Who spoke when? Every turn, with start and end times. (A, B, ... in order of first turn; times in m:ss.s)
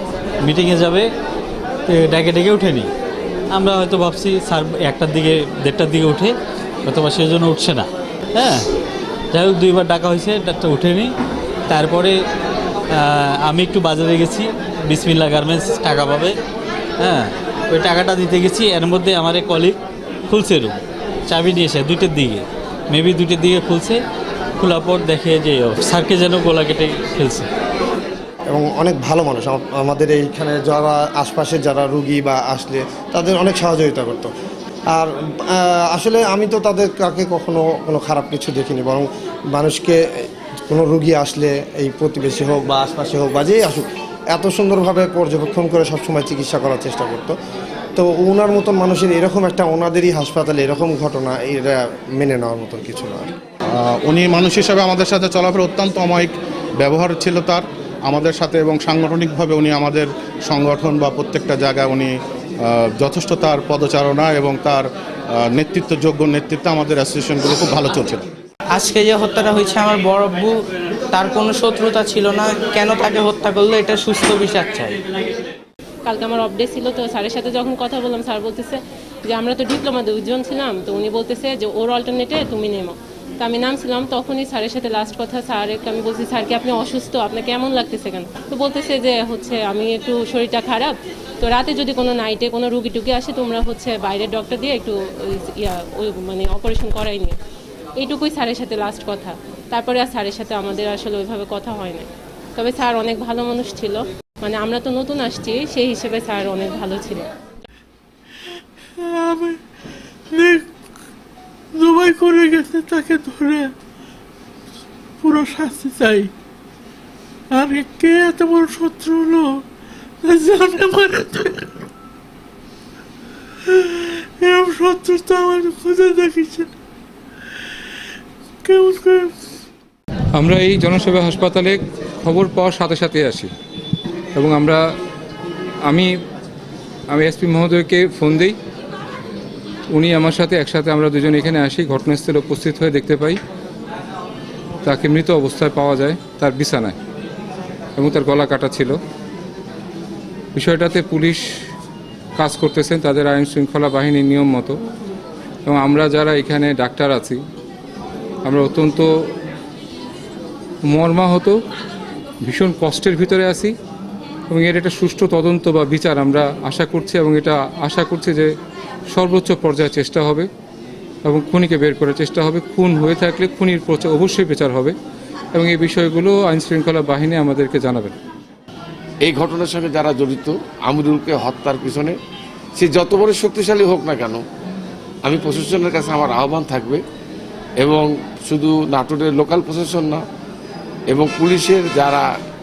0:00.4-0:01.1 A
0:01.9-0:02.9 A
0:03.5-0:08.6 A
0:09.3-0:11.1 A
0:11.7-0:12.1 A
0:12.9-0:16.3 A
0:17.0-0:24.0 A
0:24.6-0:27.5 A
0:28.5-0:34.3 B
0:34.9-0:47.3 B
0:48.0-0:53.3 B
0:53.8-1:04.9 C
1:05.4-1:08.2 C
1:08.7-1:15.0 D
1:16.1-1:37.4 E
1:38.0-1:47.3 E
1:49.0-1:49.6 F
1:50.3-1:50.6 F
1:51.8-1:53.7 F
1:55.2-1:56.3 F
1:57.5-1:59.6 F
2:00.2-2:01.6 F
2:03.7-2:06.7 F
2:08.6-2:09.3 F
2:10.3-2:13.5 G
2:14.3-2:14.8 G
2:17.1-2:18.6 G
2:19.9-2:23.4 G
2:24.8-2:26.9 G
2:28.0-2:29.0 G
2:30.5-2:31.4 G
2:32.4-2:34.8 G
2:35.6-2:37.4 G
2:38.4-2:39.1 G
2:40.9-2:41.6 G
2:42.4-2:43.7 G
2:44.5-2:48.5 G
2:49.1-2:50.5 G
2:51.2-2:54.9 G
2:55.5-2:58.1 G
2:59.2-3:02.2 H
3:02.8-3:04.4 H
3:05.2-3:07.0 H
3:07.8-3:10.2 H
3:11.1-3:12.2 H